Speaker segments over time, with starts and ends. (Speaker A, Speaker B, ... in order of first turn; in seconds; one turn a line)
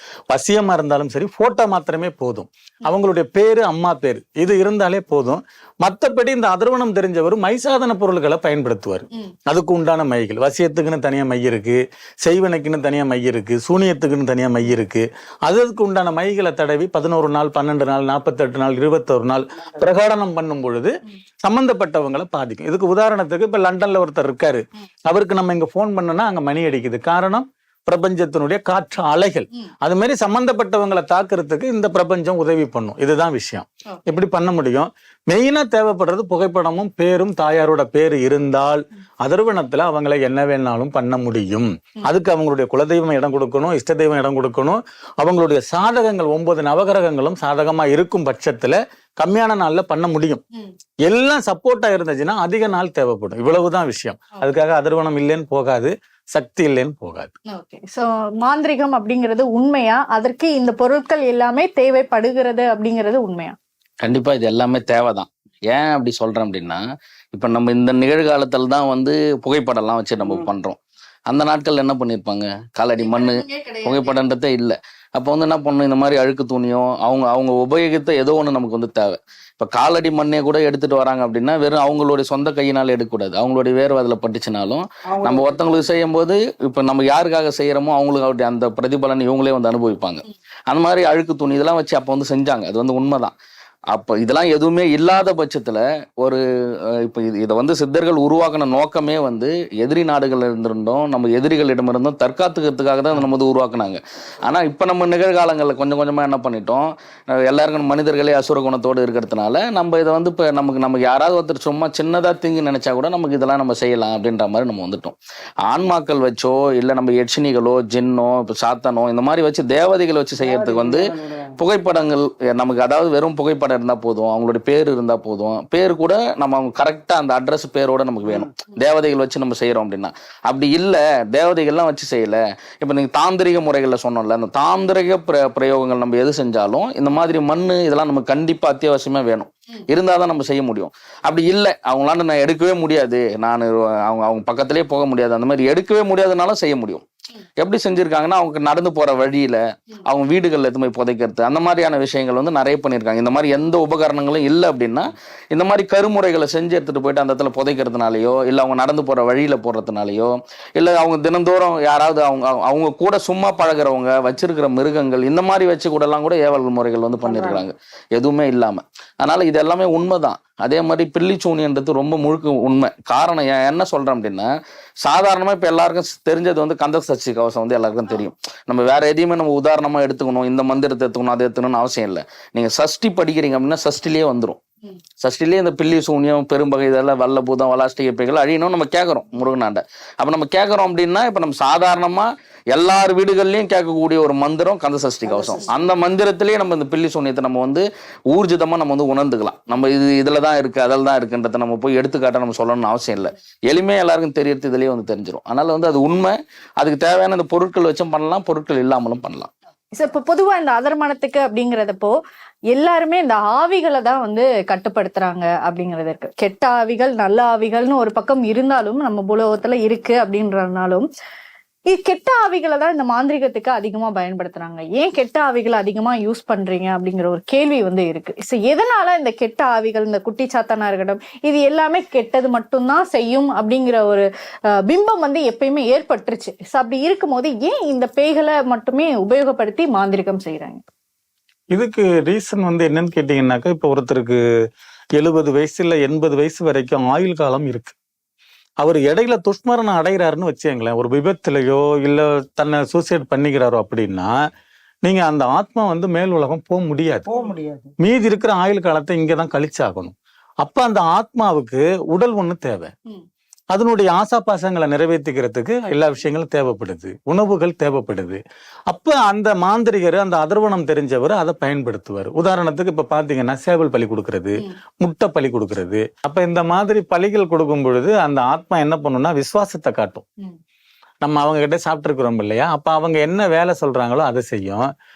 Speaker A: 0.3-50.4
Speaker A: 51.0-57.3
Speaker B: 57.5-63.5
Speaker C: 64.0-66.8
Speaker C: 67.3-70.8
Speaker C: 71.3-93.3
Speaker B: 73.0-74.2
Speaker D: 85.1-85.6
Speaker C: 93.9-96.4
Speaker C: 97.0-147.0
Speaker D: 120.4-121.6
Speaker C: 147.6-174.5
Speaker D: 167.2-167.6
Speaker C: 175.0-184.6
Speaker C: 185.2-209.5
Speaker D: 195.2-195.7
Speaker B: 209.9-212.2
Speaker B: 212.7-221.1
Speaker B: 221.9-234.3
Speaker B: 234.8-240.8
Speaker A: 241.7-244.4
Speaker A: 245.2-247.9
Speaker A: 248.8-254.3
Speaker A: 255.0-257.3
Speaker D: 257.3-257.9
Speaker A: 258.0-262.9
Speaker A: 263.7-280.2
Speaker A: 281.2-284.9